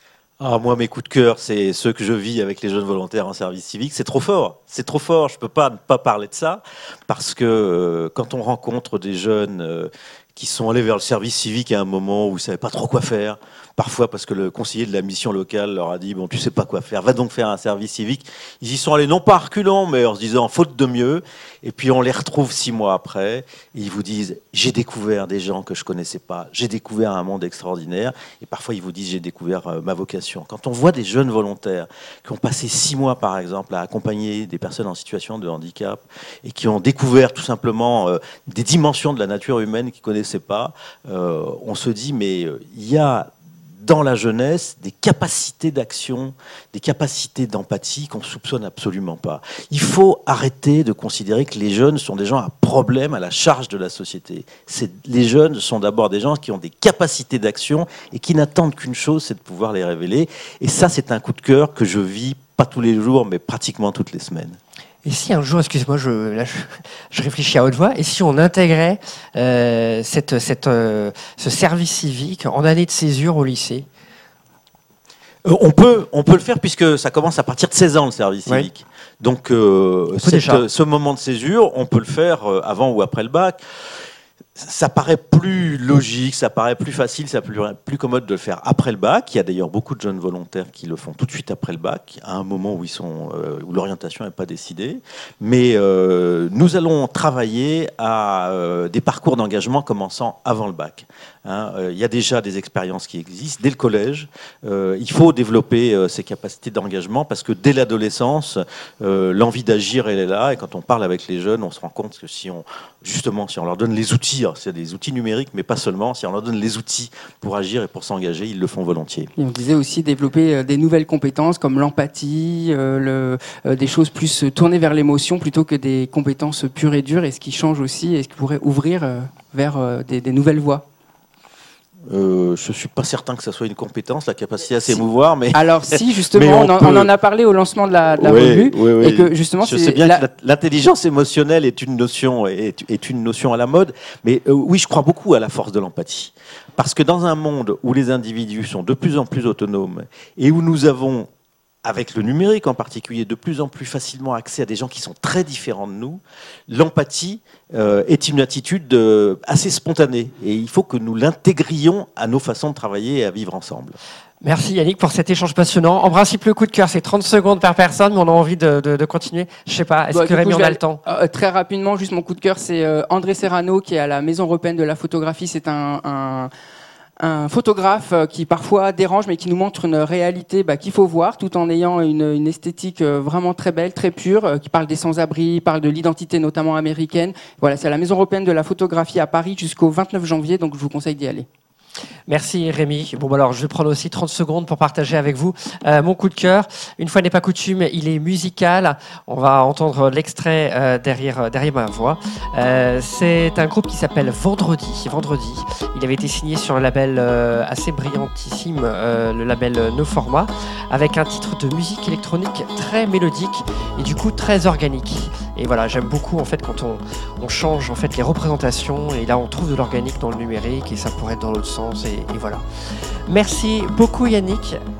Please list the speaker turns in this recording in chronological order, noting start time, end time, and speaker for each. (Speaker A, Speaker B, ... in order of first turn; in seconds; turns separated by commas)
Speaker A: 0.4-64.6, Speaker B: 65.0-73.9, Speaker A: 75.5-83.6, Speaker B: 80.2-80.6, Speaker A: 84.6-119.3, Speaker C: 119.4-130.8, Speaker A: 132.1-137.1, Speaker C: 135.5-140.2, Speaker A: 138.2-151.3, Speaker A: 151.8-164.0, Speaker B: 164.4-171.0, Speaker C: 170.1-176.5, Speaker C: 177.2-191.5, Speaker B: 192.3-222.6, Speaker B: 223.3-224.8